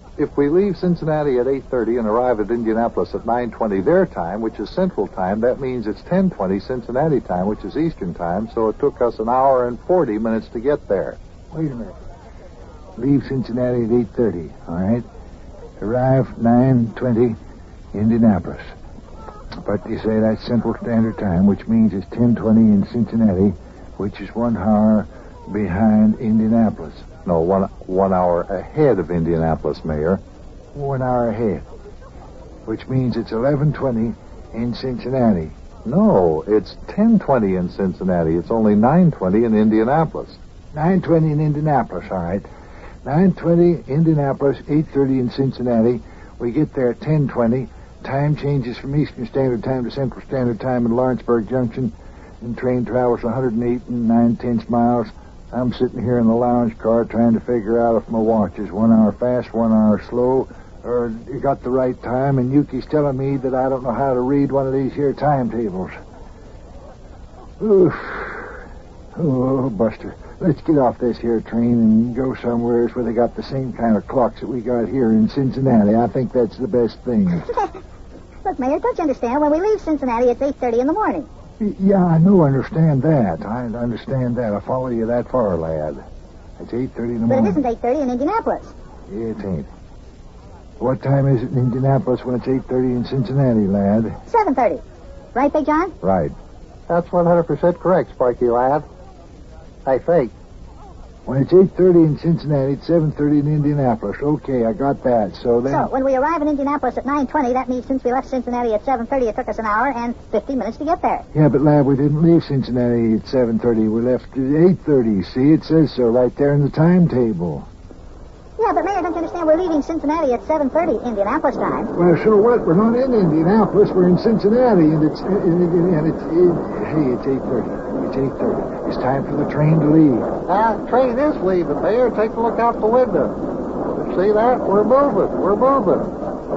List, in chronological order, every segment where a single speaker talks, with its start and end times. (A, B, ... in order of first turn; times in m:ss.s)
0:00.2-0:11.2 A
0:11.5-0:12.0 B
0:13.0-0:15.0 B
0:15.8-0:17.4 B
0:17.9-0:18.7 B
0:19.6-0:27.0 B
0:27.2-0:30.2 A
0:30.7-0:31.6 B
0:32.6-0:35.6 B
0:35.8-0:40.4 A
0:40.7-0:42.4 B
0:43.0-1:05.9 B
1:07.6-1:08.6 B
1:09.2-1:17.4 B
1:17.3-1:17.8 C
1:18.4-1:21.3 C
1:21.6-1:26.0 B
1:26.6-1:27.6 B
1:27.3-1:28.8 C
1:29.1-1:29.7 B
1:30.8-1:34.2 B
1:34.3-1:34.8 C
1:35.3-1:35.9 C
1:36.0-1:36.3 A
1:36.9-1:38.9 D
1:39.9-1:40.3 D
1:41.2-1:45.9 B
1:45.7-1:51.2 C
1:51.3-1:57.7 B
1:58.6-2:01.9 C
2:01.9-2:10.3 B
2:10.4-2:16.1 D